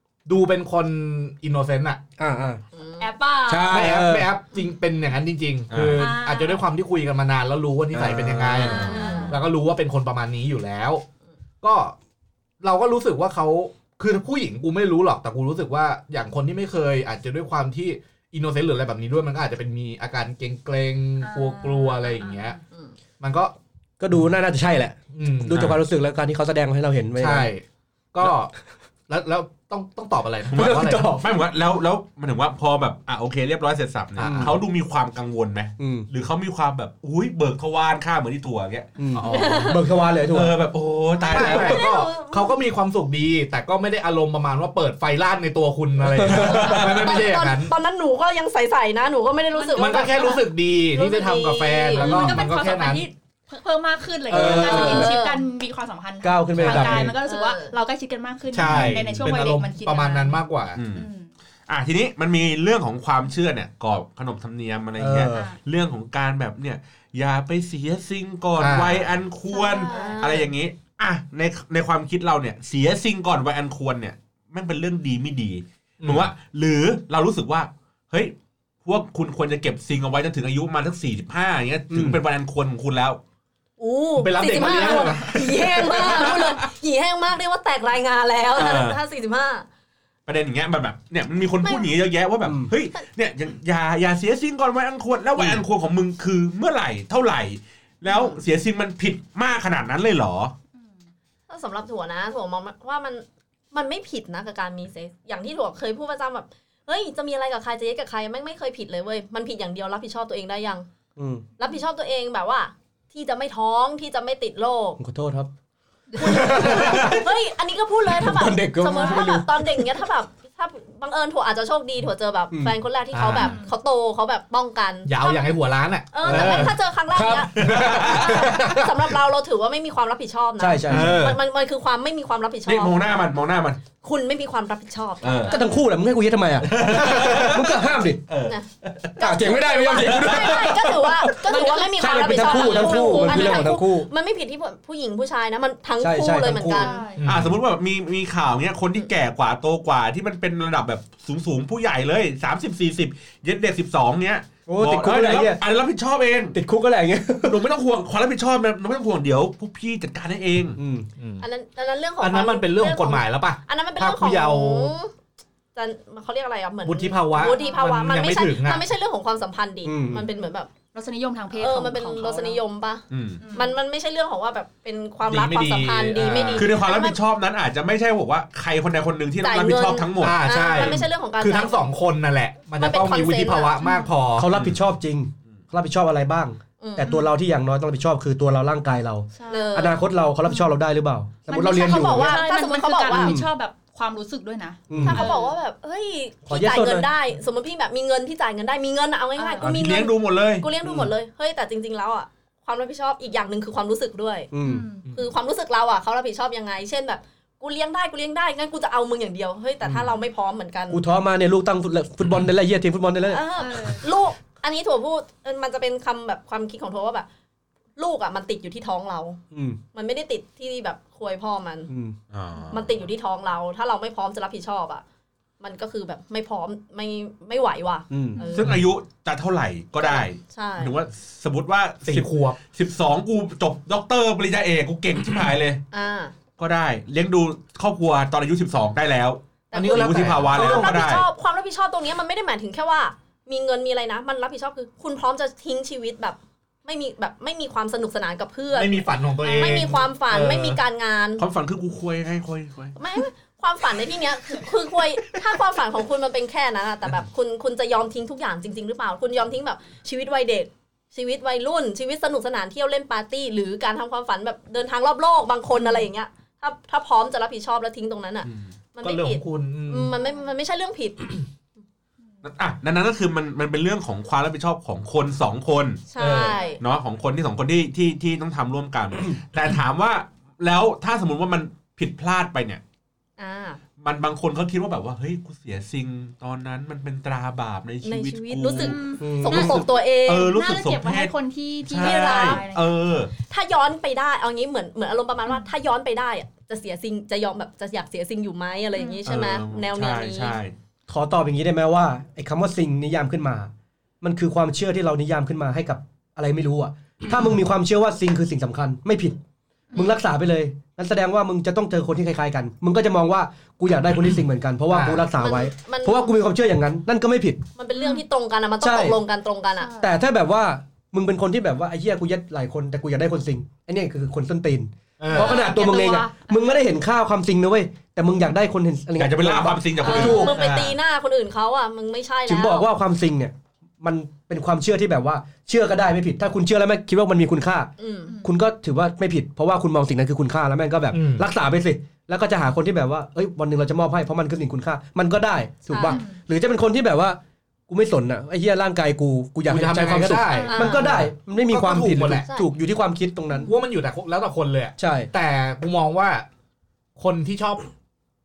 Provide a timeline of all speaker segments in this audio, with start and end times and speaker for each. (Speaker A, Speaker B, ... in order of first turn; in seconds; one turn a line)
Speaker A: 0.3-2.0
Speaker B: 2.2-2.6
Speaker C: 2.8-3.1
Speaker D: 3.0-4.0
Speaker B: 3.5-4.3
Speaker A: 3.7-11.0
Speaker E: 5.7-6.0
Speaker D: 5.9-6.6
Speaker B: 7.9-8.9
Speaker D: 8.6-9.4
Speaker C: 8.6-9.4
Speaker A: 11.6-11.9
Speaker A: 12.6-22.6
Speaker D: 21.2-22.6
Speaker A: 23.2-23.6
Speaker B: 24.0-27.5
Speaker A: 25.1-25.7
Speaker E: 25.5-25.8
Speaker A: 27.2-28.5
Speaker A: 29.1-31.2
Speaker B: 30.5-31.3
Speaker E: 30.5-39.0
Speaker A: 34.2-34.5
Speaker B: 34.2-34.6
Speaker B: 35.8-36.1
Speaker B: 39.0-40.6
Speaker A: 39.1-39.8
Speaker C: 39.3-39.8
Speaker E: 40.3-41.8
Speaker C: 41.2-42.6
Speaker A: 41.3-47.8
Speaker B: 41.4-41.8
Speaker B: 46.1-47.0
Speaker E: 46.2-47.0
Speaker C: 46.6-52.4
Speaker D: 49.5-50.4
Speaker A: 49.8-53.1
Speaker D: 52.0-60.4
Speaker B: 54.3-55.2
Speaker A: 54.3-55.1
Speaker C: 54.6-55.4
Speaker B: 56.2-57.2
Speaker A: 56.6-57.1
Speaker C: 57.2-57.7
Speaker A: 58.5-60.8
Speaker B: 58.7-59.1
Speaker E: 60.8-61.1
Speaker D: 60.9-61.3
Speaker E: 61.7-83.2
Speaker B: 65.0-65.5
Speaker D: 65.3-65.6
Speaker A: 68.6-69.1
Speaker D: 69.5-70.2
Speaker C: 69.8-70.5
Speaker A: 76.0-76.3
Speaker C: 83.8-89.7
Speaker A: 84.2-86.4
Speaker E: 86.0-86.5
Speaker E: 88.5-89.0
Speaker E: 90.3-100.5
Speaker C: 91.6-91.9
Speaker B: 92.4-92.7
Speaker C: 98.1-98.4
Speaker C: 101.5-110.9
Speaker B: 111.2-111.5
Speaker C: 111.6-115.0
Speaker B: 115.0-115.5
Speaker D: 116.1-116.9
Speaker B: 116.2-117.3
Speaker C: 116.2-133.2
Speaker B: 118.1-120.1
Speaker A: 123.1-123.6
Speaker D: 123.3-123.7
Speaker A: 125.1-126.8
Speaker B: 126.2-128.6
Speaker E: 127.6-128.4
Speaker A: 127.6-128.9
Speaker B: 130.6-131.3
Speaker A: 130.9-131.4
Speaker E: 131.0-131.2
Speaker E: 132.7-133.8
Speaker C: 134.0-135.6
Speaker E: 135.2-135.6
Speaker B: 135.5-138.2
Speaker D: 135.5-135.8
Speaker E: 136.6-139.2
Speaker C: 139.2-147.0
Speaker B: 139.2-144.1
Speaker E: 140.0-140.6
Speaker D: 141.4-143.7
Speaker B: 146.0-147.0
Speaker D: 146.7-147.3
Speaker A: 147.2-147.6
Speaker E: 147.2-156.6
Speaker B: 154.7-155.6
Speaker B: 156.5-157.6
Speaker E: 157.4-160.8
Speaker B: 160.8-161.1
Speaker A: 161.2-161.4
Speaker C: 161.4-165.1
Speaker A: 162.2-164.9
Speaker C: 165.8-170.7
Speaker A: 166.8-168.8
Speaker D: 167.4-167.8
Speaker B: 169.8-170.2
Speaker D: 170.9-172.6
Speaker C: 171.6-177.2
Speaker E: 173.1-173.4
Speaker D: 173.4-173.8
Speaker A: 175.3-176.8
Speaker E: 176.6-181.0
Speaker C: 179.4-181.9
Speaker A: 180.2-184.5
Speaker C: 182.8-183.8
Speaker D: 183.8-184.1
Speaker B: 184.4-192.4
Speaker E: 184.5-184.8
Speaker C: 186.8-187.2
Speaker D: 187.0-187.3
Speaker D: 189.3-189.8
Speaker C: 189.5-190.0
Speaker D: 190.5-190.7
Speaker D: 191.5-195.6
Speaker C: 191.8-193.4
Speaker B: 193.1-193.5
Speaker B: 194.9-195.3
Speaker C: 195.0-204.5
Speaker B: 196.5-197.1
Speaker D: 199.4-199.7
Speaker B: 199.6-200.0
Speaker E: 199.6-200.7
Speaker B: 200.8-201.1
Speaker B: 204.5-204.9
Speaker D: 204.6-205.1
Speaker C: 205.1-211.0
Speaker B: 210.9-213.4
Speaker C: 213.3-217.3
Speaker D: 213.6-214.0
Speaker C: 218.0-219.4
Speaker B: 219.5-219.8
Speaker C: 219.9-221.9
Speaker B: 221.9-222.2
Speaker E: 222.3-223.1
Speaker C: 222.7-225.0
Speaker C: 225.6-228.7
Speaker B: 228.1-228.4
Speaker E: 228.5-235.8
Speaker A: 228.6-228.9
Speaker C: 230.0-230.9
Speaker A: 232.0-232.6
Speaker C: 235.9-236.3
Speaker E: 236.6-241.3
Speaker C: 239.7-251.4
Speaker A: 239.7-240.9
Speaker A: 248.7-250.7
Speaker D: 249.4-249.8
Speaker E: 250.4-250.8
Speaker E: 251.4-253.0
Speaker C: 253.0-271.5
Speaker D: 265.7-266.1
Speaker E: 268.4-268.7
Speaker A: 269.0-270.1
Speaker E: 272.4-276.1
Speaker C: 276.1-276.8
Speaker A: 276.2-276.6
Speaker D: 276.4-276.8
Speaker E: 276.8-282.8
Speaker C: 283.4-283.8
Speaker E: 284.0-289.0
Speaker C: 288.0-290.6
Speaker D: 288.7-292.9
Speaker B: 289.2-289.8
Speaker E: 290.3-293.3
Speaker C: 292.0-292.6
Speaker C: 293.5-300.6
Speaker D: 299.0-299.2
Speaker E: 299.3-300.7
Speaker B: 301.1-309.4
Speaker B: 309.9-317.6
Speaker A: 314.9-315.3
Speaker C: 315.4-316.4
Speaker C: 317.8-319.9
Speaker D: 318.0-318.2
Speaker B: 318.8-319.2
Speaker D: 319.8-320.2
Speaker B: 320.0-330.6
Speaker A: 325.2-325.6
Speaker D: 325.3-326.8
Speaker E: 329.2-330.6
Speaker C: 330.0-332.9
Speaker A: 330.3-331.0
Speaker B: 332.5-337.9
Speaker C: 338.0-338.4
Speaker B: 338.4-353.8
Speaker A: 341.1-341.5
Speaker C: 345.9-346.2
Speaker D: 346.1-346.4
Speaker A: 349.7-352.5
Speaker D: 350.5-351.0
Speaker C: 350.7-351.2
Speaker C: 352.4-352.7
Speaker A: 353.6-356.5
Speaker B: 355.0-355.3
Speaker A: 357.2-357.9